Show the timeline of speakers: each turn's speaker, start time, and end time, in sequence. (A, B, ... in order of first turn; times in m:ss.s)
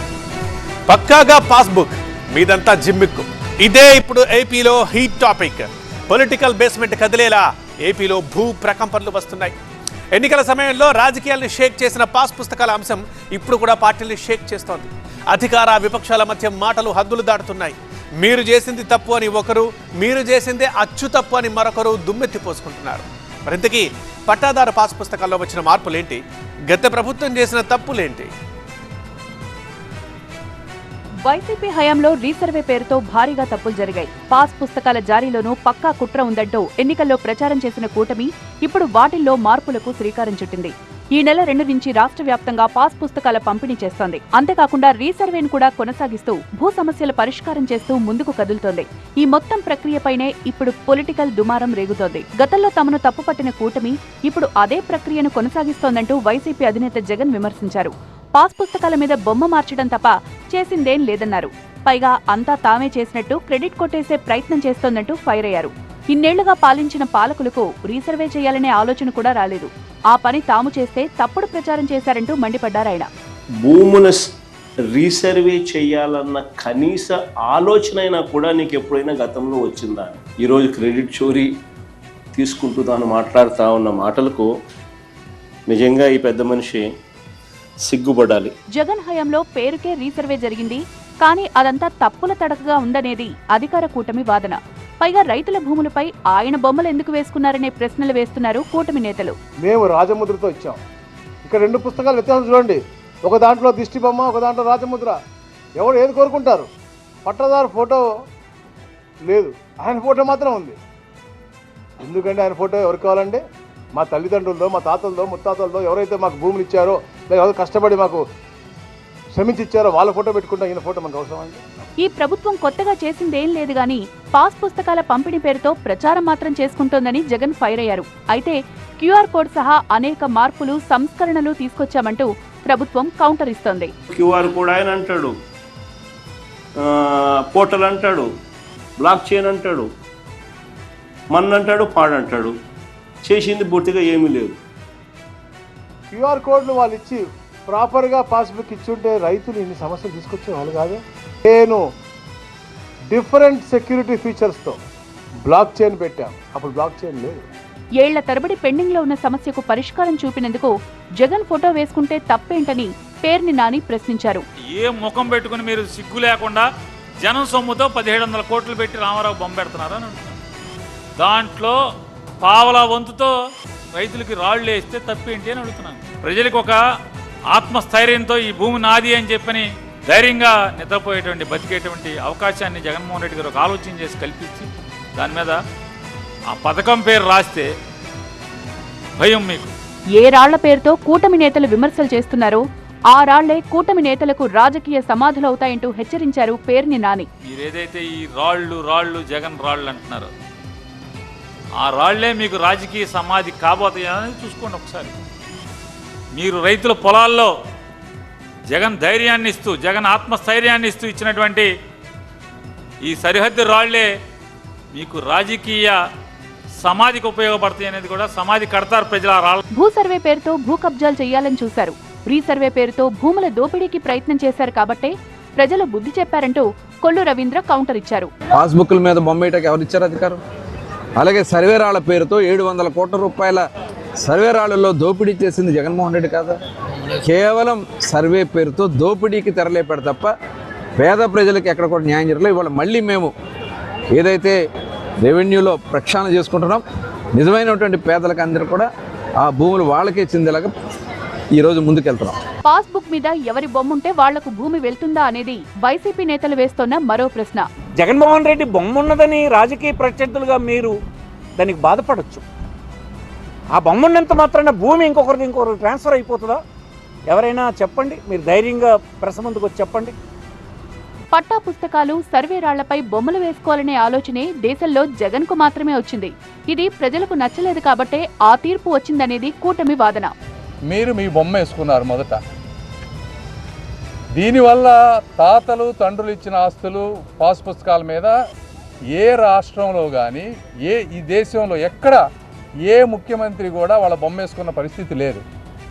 0:00.9-0:09.5 A
0:10.1-0:28.3 A
0:31.2-1:13.1 B
1:13.6-1:14.3 C
1:14.9-1:21.5 C
1:22.3-1:24.5 C
1:25.7-1:26.8 C
1:27.8-1:28.5 C
1:28.7-1:39.4 B
1:39.6-1:40.8 D
1:41.4-1:45.2 D
1:45.8-1:46.7 D
1:47.2-1:48.0 D
1:49.2-1:50.8 D
1:52.0-1:53.4 D
1:53.9-1:58.2 D
1:59.3-2:01.6 D
2:02.0-2:13.9 B
2:14.1-2:15.3 C
2:16.9-2:18.3 C
2:19.0-2:19.9 C
2:21.3-2:22.5 C
2:23.2-2:24.6 C
2:26.1-2:31.8 D
2:33.1-2:34.8 D
2:35.4-2:37.4 D
2:38.0-2:44.4 B
2:44.7-2:46.6 E
2:47.2-2:50.4 E
2:51.2-2:51.7 E
2:52.4-2:53.3 E
2:53.9-2:56.8 E
2:57.5-3:05.6 E
3:06.5-3:07.7 E
3:09.2-3:09.7 E
3:10.2-3:17.3 B
3:17.5-3:20.3 E
3:21.8-3:25.1 E
3:26.4-3:27.5 E
3:28.7-3:31.7 E
3:33.0-3:34.1 E
3:34.9-3:36.0 E
3:36.8-3:39.6 E
3:39.7-3:48.3 B
3:48.5-3:50.4 F
3:51.2-3:53.6 F
3:54.2-3:56.6 F
3:57.2-4:00.3 F
4:01.0-4:03.3 F
4:04.1-4:04.6 F
4:05.2-4:06.8 F
4:07.3-4:08.9 F
4:09.4-4:10.7 F
4:11.5-4:12.4 F
4:12.6-4:17.6 B
4:18.0-4:20.9 G
4:21.6-4:22.4 G
4:23.7-4:26.6 G
4:27.3-4:30.1 G
4:31.3-4:40.3 B
4:40.9-4:42.4 H
4:44.4-4:48.3 H
4:49.2-4:52.2 H
4:52.9-4:55.4 H